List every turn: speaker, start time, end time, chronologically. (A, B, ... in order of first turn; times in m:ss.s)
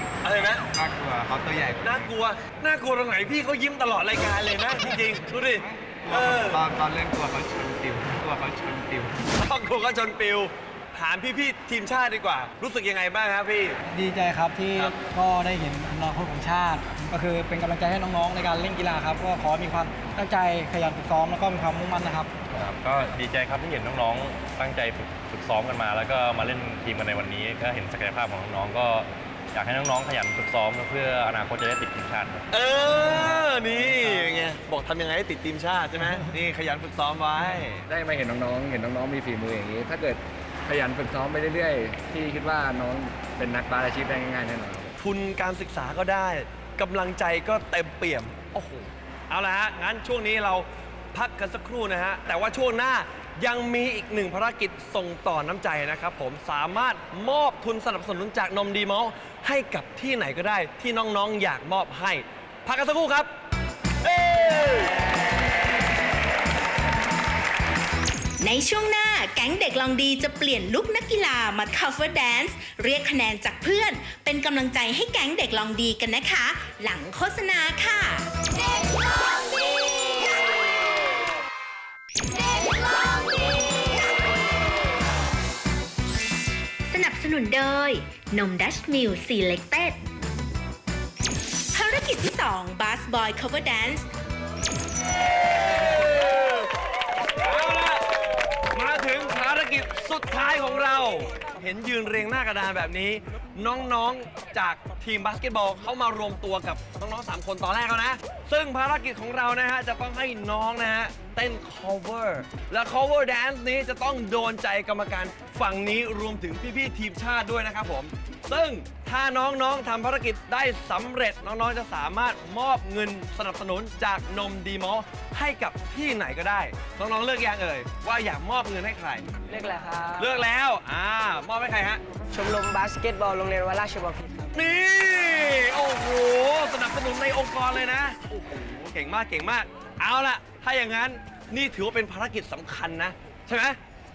0:00.2-0:00.6 A
0:00.7-0:02.1 B
0:01.8-0:06.6 A
0:05.6-0:09.3 B
0:09.3-0:13.8 A
0:13.9-0:22.3 C
0:22.5-0:32.4 D
0:32.5-0:37.8 A
0:37.9-0:45.0 E
0:45.0-1:03.3 A
1:04.0-1:04.9 A
1:08.4-1:18.3 F
1:26.9-1:30.0 F
1:31.7-1:34.0 F
1:35.6-1:36.7 A
1:37.4-1:38.0 A
1:38.7-2:09.3 A
2:09.5-2:10.3 G
2:10.2-2:12.0 A
2:12.3-2:14.6 G
2:14.5-2:23.8 A